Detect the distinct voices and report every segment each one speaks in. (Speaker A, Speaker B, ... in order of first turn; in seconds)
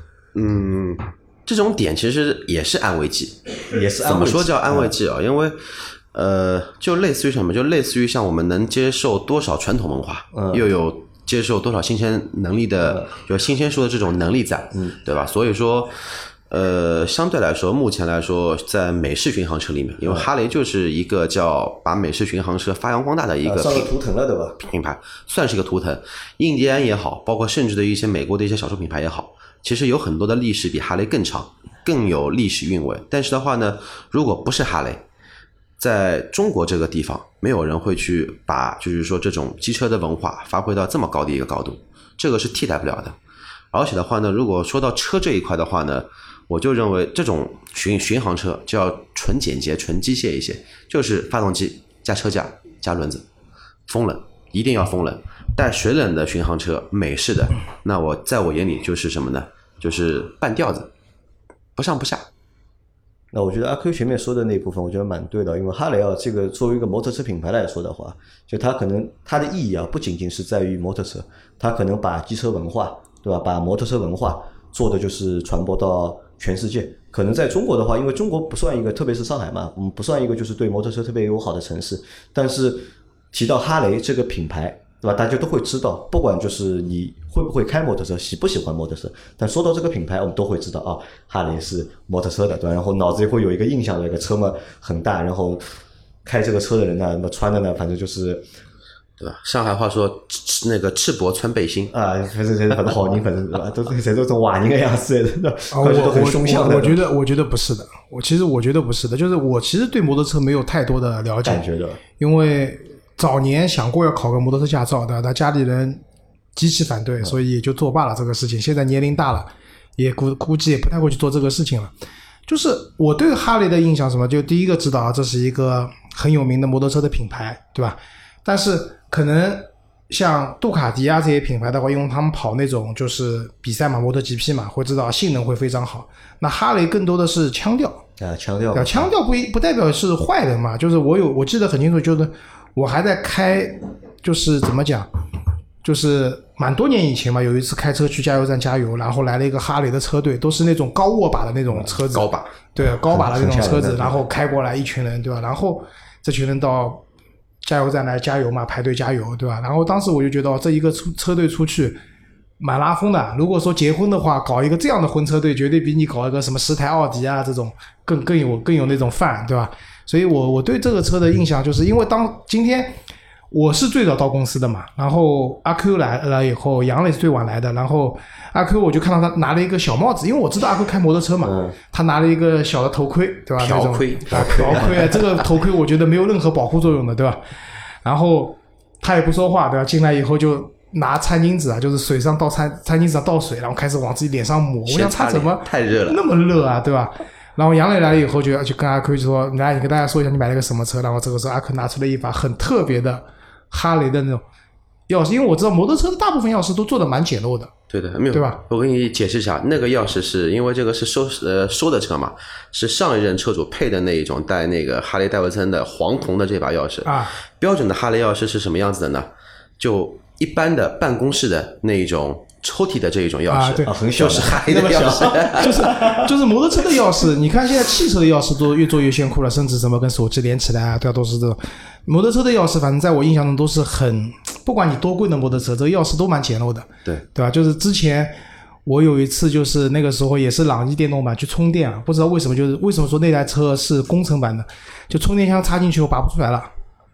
Speaker A: 0.3-16.0, 16.5-23.9, 24.6-35.0, 35.8-43.2, 43.7-53.2, 53.9-60.9, 61.8-62.2, 99.2-101.9, 152.1-152.5, 183.6-185.2, 194.9-196.2, 207.9-219.3, 219.8-225.9
Speaker B: 3.7-4.9, 10.3-10.7, 23.4-24.6, 63.3-95.6, 96.2-98.5, 101.9-107.0, 111.4-112.0, 138.2-139.1, 152.9-154.2, 181.4-181.8, 184.3-185.1, 223.9-226.3
Speaker C: 105.7-111.7, 112.2-116.0, 116.6-121.9, 122.5-138.0, 138.7-145.1, 145.8-157.0, 157.6-162.0, 162.6-173.0, 173.5-187.4, 188.0-204.4, 205.1-207.7, 208.3-208.6, 217.1-217.3, 223.5-223.9, 224.6-238.3, 238.9-246.7